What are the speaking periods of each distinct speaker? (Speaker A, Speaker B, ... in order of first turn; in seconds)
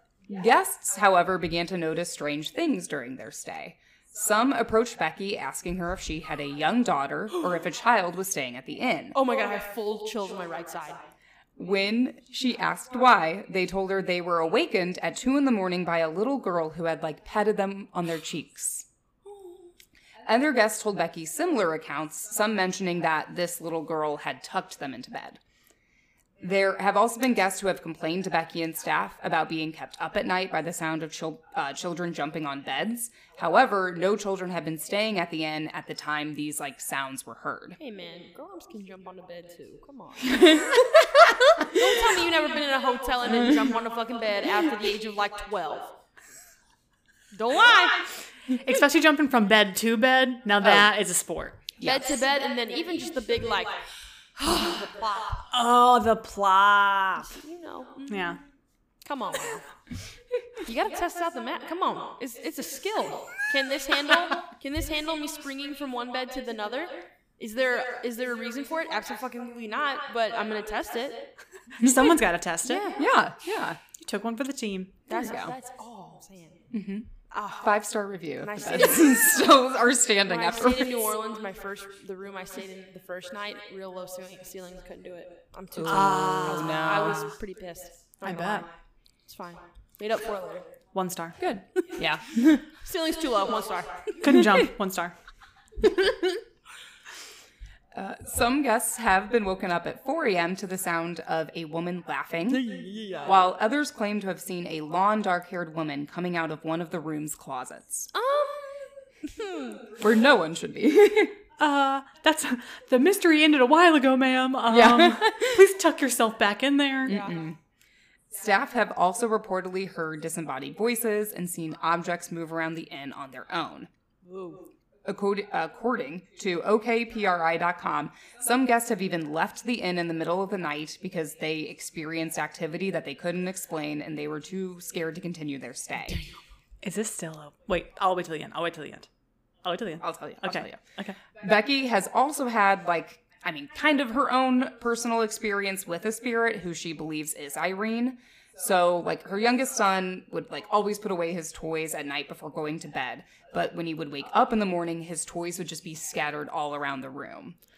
Speaker A: 0.3-9.2, 11.6-18.9, 20.2-25.4, 26.4-37.8, 50.6-50.9, 51.8-52.1, 72.9-73.8, 75.2-75.5, 76.7-77.1, 77.6-81.0, 85.8-87.3, 91.4-92.7, 94.3-94.6, 97.9-108.1, 110.0-111.4, 114.7-115.6, 117.0-117.6, 118.3-123.9, 125.0-136.2, 140.0-140.8, 141.4-157.6
Speaker B: 9.1-11.1, 19.3-19.6, 37.8-41.0, 41.6-46.0, 47.3-48.0, 51.8-53.8, 54.4-55.5, 57.3-58.4, 59.0-59.6, 60.6-71.3, 72.6-73.0, 75.1-76.7, 77.3-77.8, 78.4-79.4, 80.2-88.7, 89.3-90.7, 92.7-94.4, 102.5-103.4, 108.1-109.9, 117.1-117.3, 124.2-124.7
Speaker C: 48.6-51.6, 55.5-57.4, 58.1-58.4, 71.8-72.9, 74.0-75.0, 85.8-87.1, 88.2-88.7, 90.9-91.4, 94.2-95.1, 111.6-117.2, 136.8-139.1, 139.6-141.2